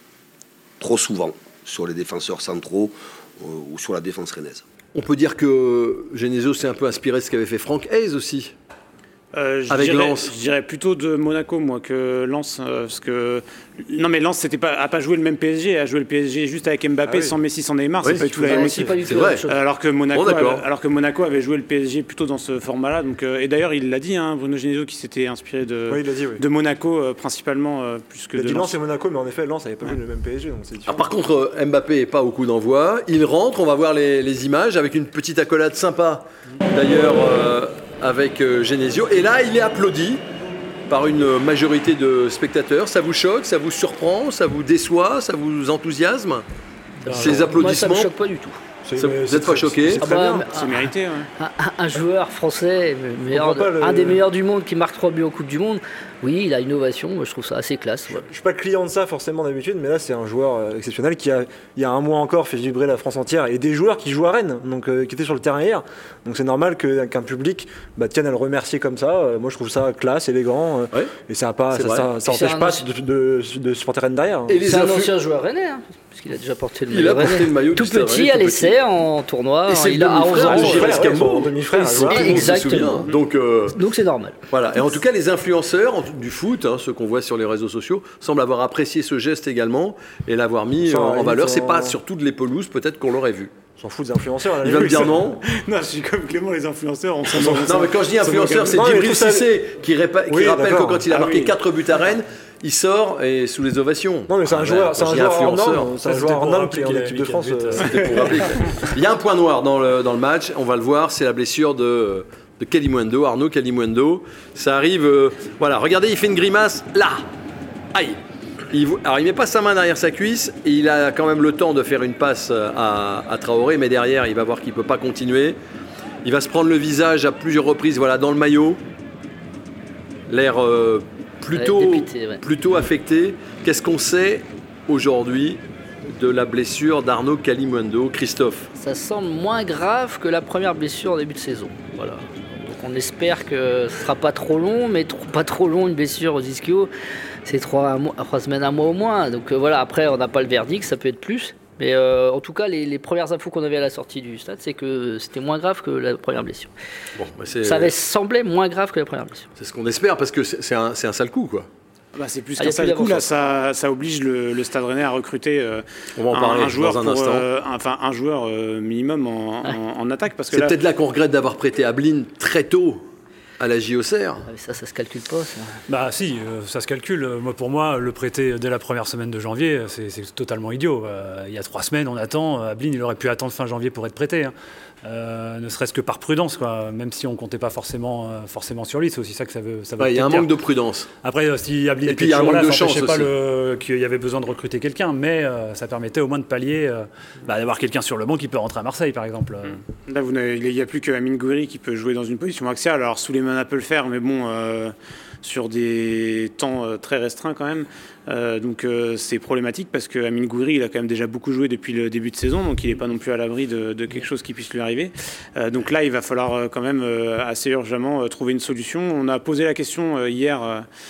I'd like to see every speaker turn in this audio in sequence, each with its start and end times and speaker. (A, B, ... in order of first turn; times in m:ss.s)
0:00.8-0:04.6 A
0:04.9-0:08.6 B
0:09.3-0:28.7 C
0:09.7-0:10.3 B
0:17.1-0:17.4 D
0:18.0-0:19.0 D
0:18.4-0:19.6 E
0:19.1-0:19.4 B
0:20.1-0:20.6 B
0:25.9-0:26.4 D
0:28.4-0:31.1 D
0:30.9-0:40.2 B
0:40.9-0:46.4 B
0:47.0-0:48.6 E
0:47.1-0:47.5 D
0:47.1-0:48.1 B
0:48.8-0:50.4 D
0:49.0-0:50.0 B
0:50.0-0:58.2 E
0:50.5-0:51.3 C
0:53.3-0:54.2 D
0:58.2-1:14.6 D
1:11.7-1:12.1 B
1:12.2-1:12.8 E
1:14.5-1:15.1 B
1:14.6-1:21.1 E
1:16.9-1:18.8 B
1:19.7-1:23.8 B
1:20.3-1:22.5 D
1:21.8-1:23.1 E
1:23.7-1:24.4 E
1:24.5-1:33.5 B
1:30.8-1:32.0 D
1:33.8-1:35.2 D
1:34.6-1:35.4 B
1:34.9-1:38.6 C
1:37.4-1:45.9 B
1:38.3-1:39.6 D
1:40.3-1:41.4 D
1:44.3-1:48.0 D
1:46.0-1:48.4 F
1:47.8-1:57.2 B
1:57.9-1:58.2 B
1:58.7-2:05.6 B
2:06.2-2:08.8 B
2:10.3-2:18.7 B
2:11.6-2:12.4 E
2:18.8-2:26.9 E
2:27.4-2:36.7 E
2:37.2-2:37.9 B
2:37.6-2:39.5 E
2:39.6-2:41.7 B
2:42.1-2:50.7 C
2:42.6-2:43.3 E
2:46.2-2:47.4 B
2:50.5-2:53.1 B
2:53.6-2:54.4 B
2:54.4-2:55.7 E
2:55.9-3:04.5 F
3:05.0-3:10.5 F
3:10.0-3:11.1 B
3:11.2-3:19.8 F
3:12.0-3:13.3 B
3:19.7-3:40.9 C